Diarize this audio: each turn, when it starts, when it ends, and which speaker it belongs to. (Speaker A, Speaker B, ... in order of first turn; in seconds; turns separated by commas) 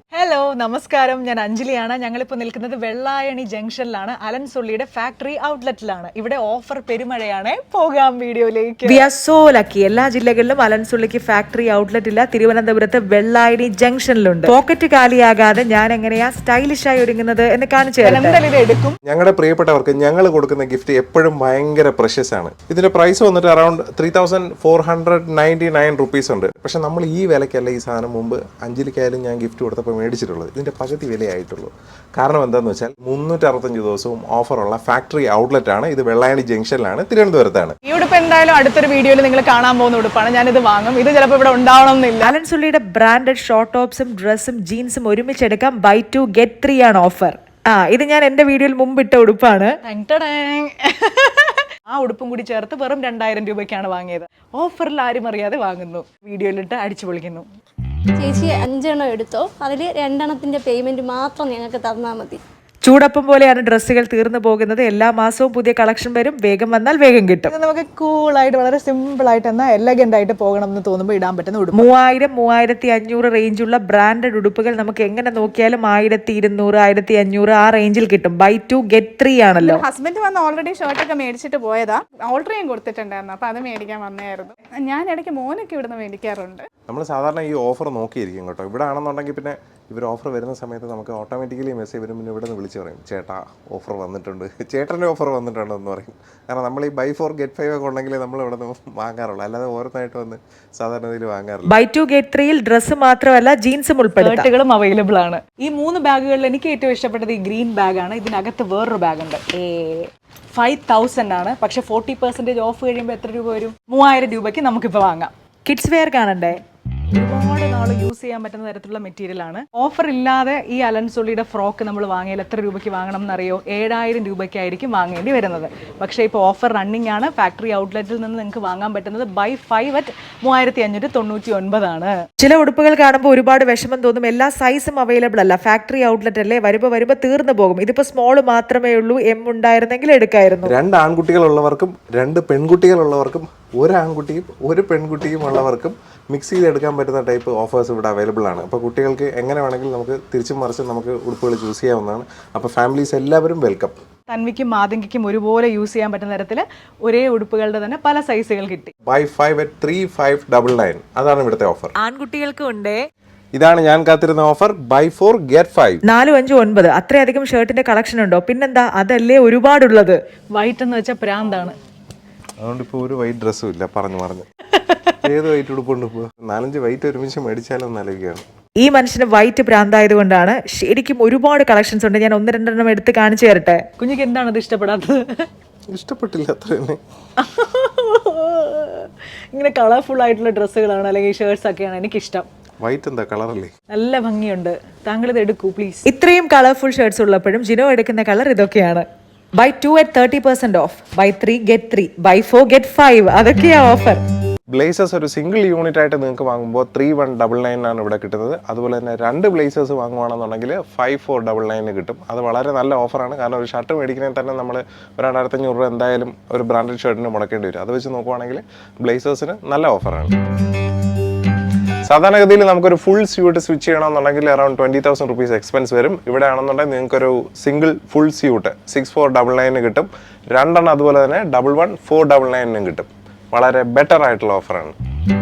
Speaker A: 0.1-9.1, Speaker B: 8.8-18.4, Speaker A: 14.2-14.5, Speaker A: 18.0-18.9, Speaker C: 19.0-37.8, Speaker A: 37.8-42.3, Speaker B: 42.2-49.8, Speaker A: 49.8-57.5, Speaker D: 58.2-62.4, Speaker B: 62.8-67.5, Speaker A: 67.5-71.9, Speaker B: 71.7-79.8, Speaker E: 79.6-86.6, Speaker C: 86.9-101.7, Speaker B: 101.7-104.5, Speaker A: 104.2-115.3, Speaker B: 115.7-116.6, Speaker A: 117.1-132.1, Speaker B: 132.4-140.7, Speaker C: 140.6-154.0, Speaker A: 154.3-158.9, Speaker C: 159.0-161.9, Speaker B: 162.0-163.0, Speaker C: 163.5-166.0, Speaker B: 166.0-170.2, Speaker A: 170.5-171.8, Speaker C: 172.6-174.5, Speaker C: 175.2-178.4, Speaker B: 178.8-183.8, Speaker A: 184.0-185.5, Speaker C: 185.9-187.0, Speaker A: 187.4-192.5, Speaker C: 192.8-193.7, Speaker A: 193.9-196.1, Speaker B: 196.1-199.0, Speaker B: 199.6-204.2, Speaker C: 204.7-220.3, Speaker C: 222.1-234.9